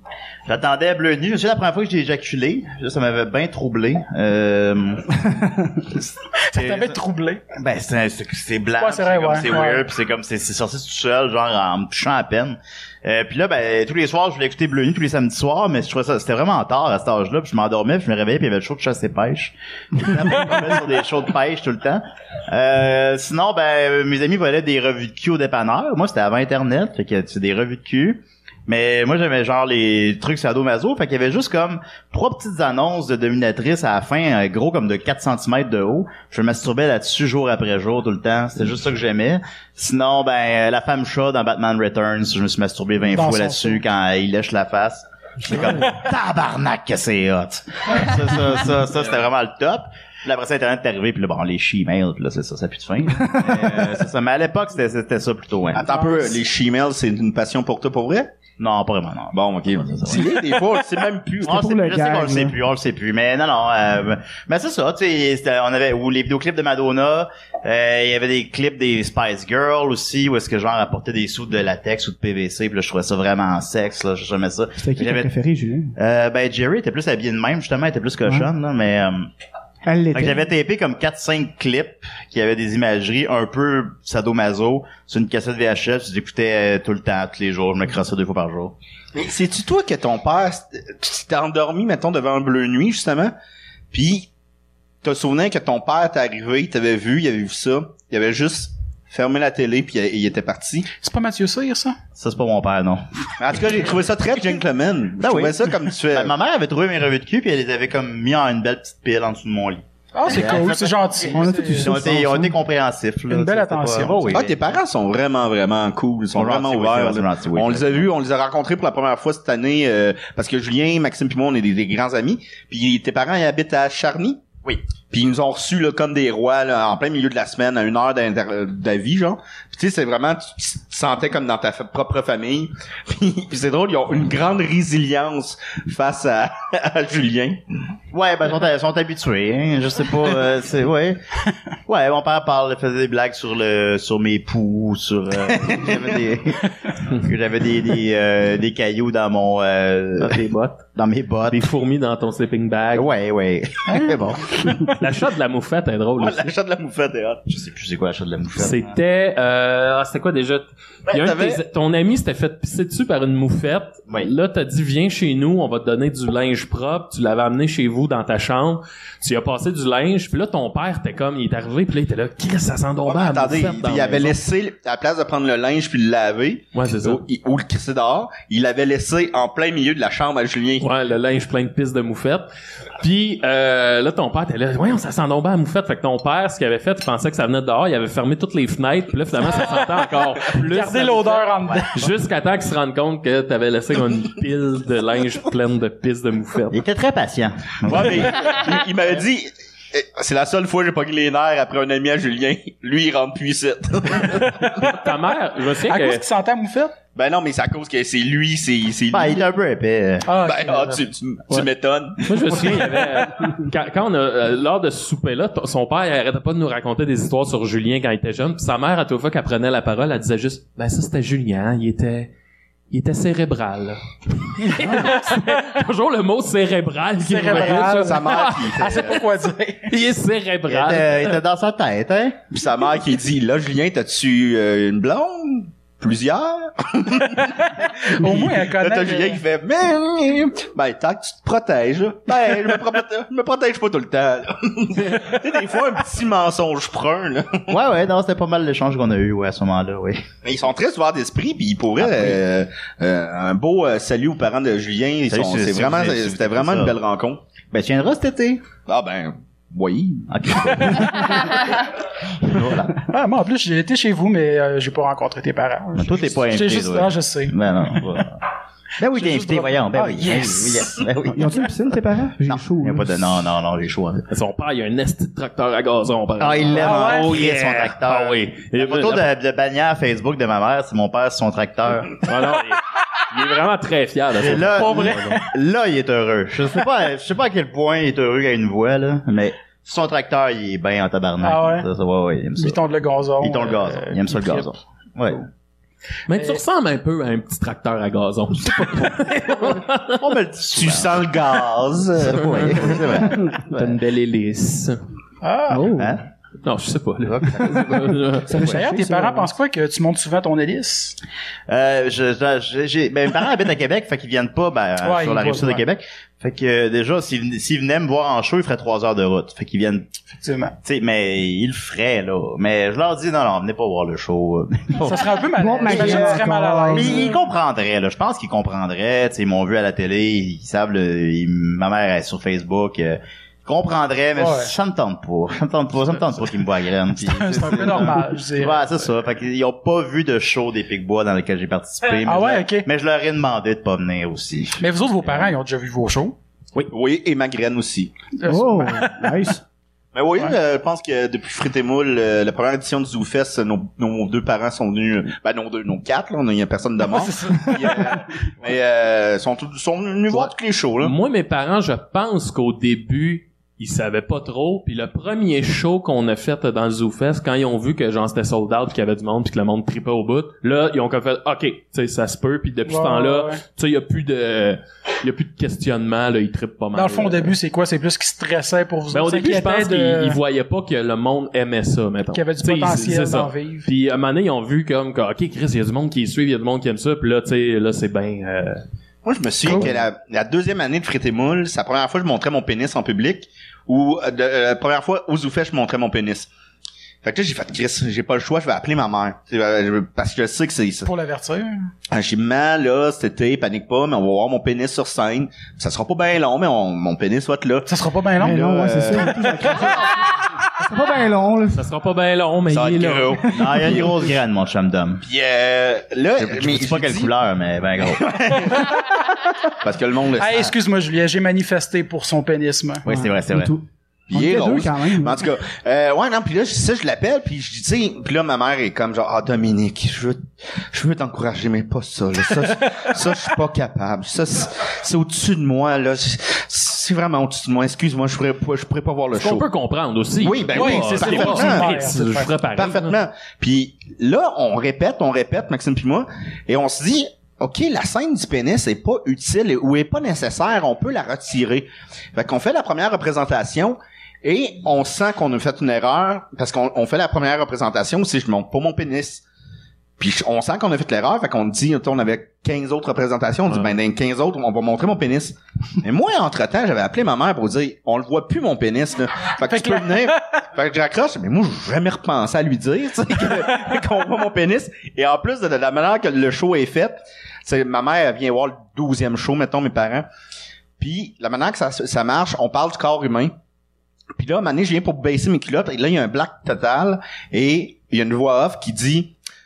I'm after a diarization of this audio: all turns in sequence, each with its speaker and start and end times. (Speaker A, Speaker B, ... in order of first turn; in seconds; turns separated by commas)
Speaker A: 0.5-7.0, Speaker B: 6.4-7.4, Speaker A: 7.5-55.9, Speaker B: 8.8-9.8, Speaker B: 43.1-43.8, Speaker C: 53.4-53.7, Speaker D: 55.8-58.3, Speaker B: 56.0-56.3, Speaker A: 58.6-60.5, Speaker D: 59.3-61.5, Speaker C: 61.5-62.6, Speaker A: 61.5-75.3, Speaker C: 74.8-75.9, Speaker A: 76.0-79.3, Speaker C: 79.8-80.5, Speaker A: 80.1-88.8, Speaker D: 89.1-93.3, Speaker D: 93.9-94.3, Speaker D: 95.0-100.9, Speaker B: 101.0-102.0, Speaker A: 102.2-103.0, Speaker D: 103.4-106.3, Speaker A: 105.2-114.8, Speaker B: 110.1-112.0, Speaker C: 111.3-112.6, Speaker B: 113.3-114.4, Speaker D: 114.3-124.4, Speaker A: 116.3-118.1, Speaker D: 125.1-137.6, Speaker A: 138.1-141.2, Speaker A: 141.9-150.4, Speaker D: 145.4-146.4, Speaker E: 150.2-150.8, Speaker A: 150.9-151.7, Speaker E: 151.5-153.1, Speaker A: 152.9-154.8, Speaker E: 155.0-156.5, Speaker D: 156.2-157.5, Speaker A: 157.5-159.0, Speaker E: 158.6-174.4, Speaker D: 161.1-161.6, Speaker D: 173.1-180.9, Speaker E: 176.8-177.2, Speaker E: 180.8-182.5, Speaker E: 183.0-196.8, Speaker B: 190.6-192.1, Speaker A: 196.7-198.5, Speaker D: 197.9-204.7, Speaker B: 204.4-204.8, Speaker E: 204.8-206.2, Speaker B: 205.9-206.9, Speaker D: 207.2-209.4, Speaker A: 209.1-210.3, Speaker B: 210.2-211.0, Speaker D: 210.4-213.0, Speaker E: 212.2-222.3, Speaker E: 222.9-229.2, Speaker B: 224.8-225.5, Speaker B: 227.2-229.9, Speaker D: 228.0-229.2, Speaker E: 229.9-231.3, Speaker A: 230.7-232.4, Speaker D: 232.5-247.8, Speaker B: 237.4-239.4, Speaker A: 247.7-250.2, Speaker D: 250.4-257.4, Speaker A: 252.0-252.4, Speaker A: 255.3-257.0, Speaker A: 257.7-258.7, Speaker D: 258.9-261.4, Speaker A: 260.3-261.6, Speaker A: 262.5-262.9, Speaker B: 263.1-267.6, Speaker A: 265.9-268.4, Speaker A: 269.0-271.7, Speaker B: 269.0-271.0, Speaker C: 271.3-273.3, Speaker A: 272.5-274.2, Speaker E: 274.3-279.3, Speaker A: 276.4-282.2, Speaker B: 276.7-277.4, Speaker E: 282.2-285.4, Speaker A: 284.4-292.8, Speaker B: 284.8-285.5, Speaker B: 291.4-291.9, Speaker B: 292.6-294.7, Speaker A: 293.4-295.5, Speaker E: 296.3-300.2, Speaker B: 296.3-296.6, Speaker A: 300.2-303.9, Speaker D: 300.2-303.0, Speaker E: 302.2-305.0, Speaker B: 305.4-305.9, Speaker C: 305.7-306.2, Speaker A: 306.0-306.2, Speaker E: 306.6-308.7, Speaker A: 307.3-307.8, Speaker B: 308.5-311.2, Speaker C: 308.5-309.5, Speaker A: 311.7-320.1, Speaker B: 315.0-315.8, Speaker B: 320.3-320.8, Speaker A: 320.8-345.5, Speaker B: 325.0-327.4, Speaker C: 325.6-327.3, Speaker B: 334.4-334.7, Speaker B: 337.1-338.9, Speaker B: 342.2-342.9, Speaker B: 344.8-346.4, Speaker D: 346.9-348.1, Speaker B: 348.4-349.2, Speaker C: 348.5-349.6, Speaker D: 350.1-361.1, Speaker B: 357.1-358.2, Speaker E: 360.3-377.5, Speaker B: 372.9-373.6, Speaker B: 376.9-380.4, Speaker E: 379.1-388.8, Speaker B: 382.3-383.9, Speaker D: 389.2-396.5, Speaker E: 389.7-389.9, Speaker D: 397.2-401.1, Speaker B: 401.1-401.9, Speaker D: 402.1-407.9, Speaker B: 407.9-409.5, Speaker D: 408.4-409.7, Speaker C: 408.4-411.8, Speaker E: 411.7-413.5, Speaker D: 412.7-414.2, Speaker A: 413.6-415.2, Speaker C: 413.6-414.1, Speaker D: 415.2-417.3, Speaker A: 416.4-418.3, Speaker D: 418.0-419.1, Speaker D: 419.8-420.7, Speaker B: 420.4-423.1, Speaker A: 423.1-423.7, Speaker C: 423.1-425.5, Speaker D: 424.3-439.7, Speaker E: 439.4-443.2, Speaker D: 440.4-442.0, Speaker B: 440.7-442.6, Speaker D: 442.7-459.4, Speaker D: 460.2-480.3, Speaker E: 463.7-463.9, Speaker B: 469.6-470.4, Speaker D: 481.0-483.5, Speaker D: 484.4-489.3